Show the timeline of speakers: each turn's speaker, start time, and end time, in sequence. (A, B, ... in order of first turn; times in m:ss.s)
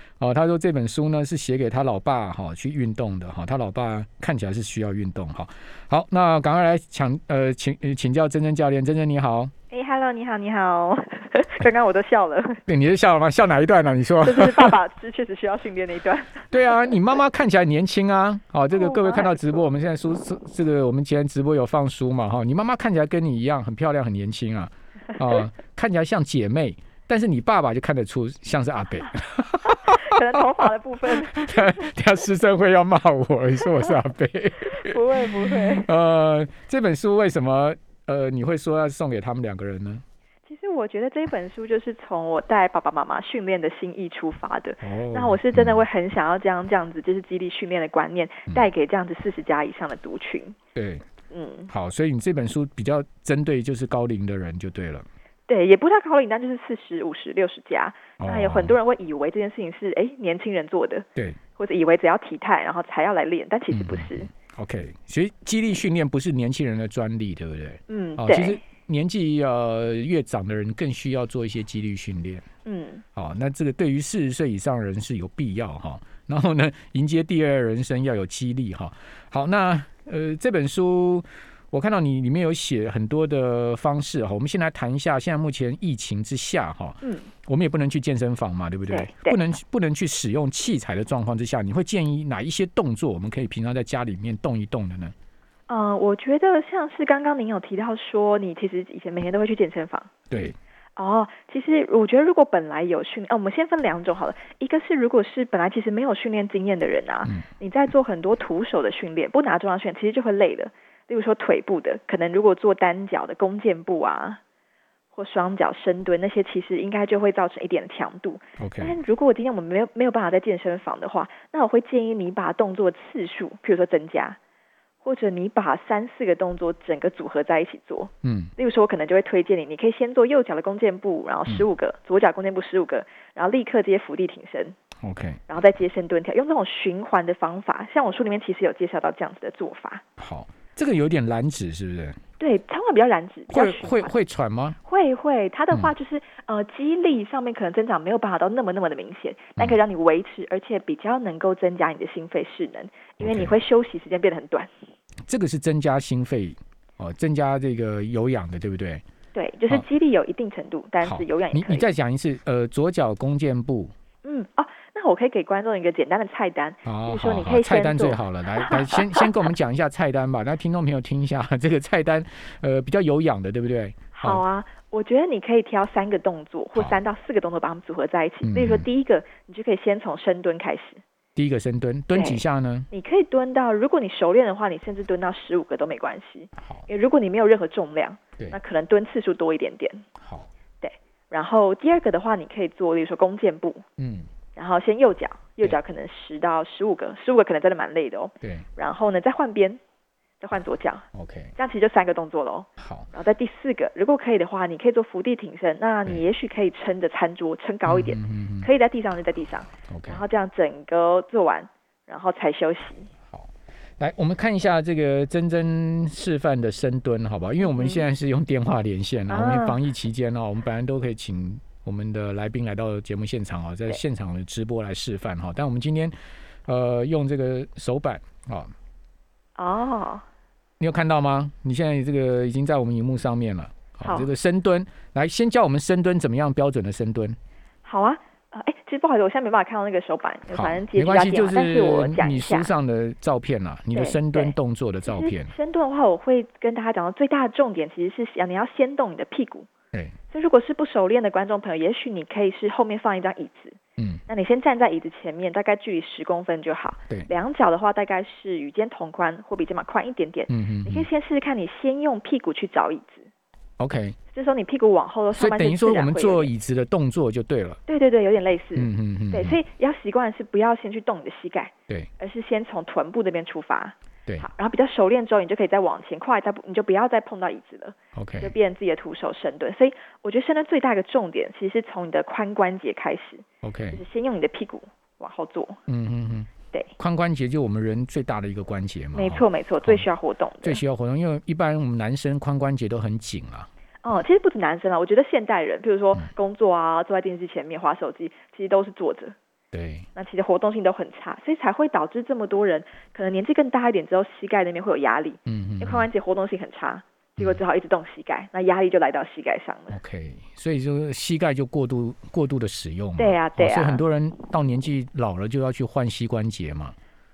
0:00.2-0:09.5 A
0:09.7-0:12.6 B
0:12.7-0:14.8 A
0:14.2-0:16.9 B
0:16.5-0:40.0 A
0:18.7-0:19.6 B
0:29.7-0:31.9 B
0:34.7-0:35.9 B
0:40.4-0:50.6 B
0:44.8-0:45.8 A
0:50.7-0:51.0 A
0:51.3-0:51.7 B
0:51.7-0:55.0 A
0:55.5-1:04.3 B
0:58.2-0:58.8 A
1:03.7-1:12.4 A
1:07.9-1:08.6 B
1:12.6-1:13.0 B
1:13.1-1:35.1 A
1:27.0-1:27.3 B
1:28.9-1:29.4 B
1:35.7-1:40.1 B
1:40.3-1:40.6 A
1:41.0-1:54.4 B
1:55.1-2:04.4 B
1:58.6-1:59.0 A
2:05.0-2:14.8 B
2:08.2-2:08.5 A
2:15.0-2:15.4 A
2:15.5-2:20.0 B
2:20.2-2:22.2 A
2:22.4-2:24.1 B
2:23.5-2:24.8 A
2:24.8-2:34.7 B
2:33.2-2:33.5 A
2:35.3-2:39.0 A
2:39.3-2:41.9 B
2:41.0-2:43.9 A
2:44.2-2:49.3 B
2:46.8-2:54.4 A
2:54.2-3:01.0 B
2:58.4-2:58.8 A
3:01.4-3:02.9 A
3:02.1-3:10.0 B
3:06.6-3:06.8 A
3:10.2-3:10.5 A
3:10.8-3:13.8 B
3:14.0-3:14.3 A
3:14.6-3:19.8 B
3:20.4-3:33.1 B
3:21.1-3:21.5 A
3:22.8-3:23.1 A
3:27.8-3:28.7 A
3:29.9-3:30.2 A
3:33.3-3:46.1 A
3:37.6-3:38.0 B
3:39.3-3:39.8 B
3:46.6-3:48.7 A
3:49.6-3:50.2 B
3:50.8-3:57.4 A
3:54.0-3:54.3 B
3:57.8-4:02.7 B
4:00.5-4:05.5 A
4:03.9-4:04.5 B
4:05.0-4:09.7 B
4:10.3-4:23.3 B
4:20.5-4:21.1 A
4:23.8-4:24.2 A
4:24.3-4:26.5 B
4:25.3-4:27.8 A
4:27.9-4:45.8 B
4:28.8-4:29.6 A
4:38.1-4:38.5 A
4:43.6-4:44.0 A
4:45.9-4:50.0 A
4:49.1-4:50.8 B
4:50.6-4:53.7 A
4:54.0-4:59.4 B
4:59.7-5:00.1 A
5:00.2-5:10.0 B
5:05.4-5:06.1 A
5:09.9-5:17.0 A
5:13.2-5:14.0 B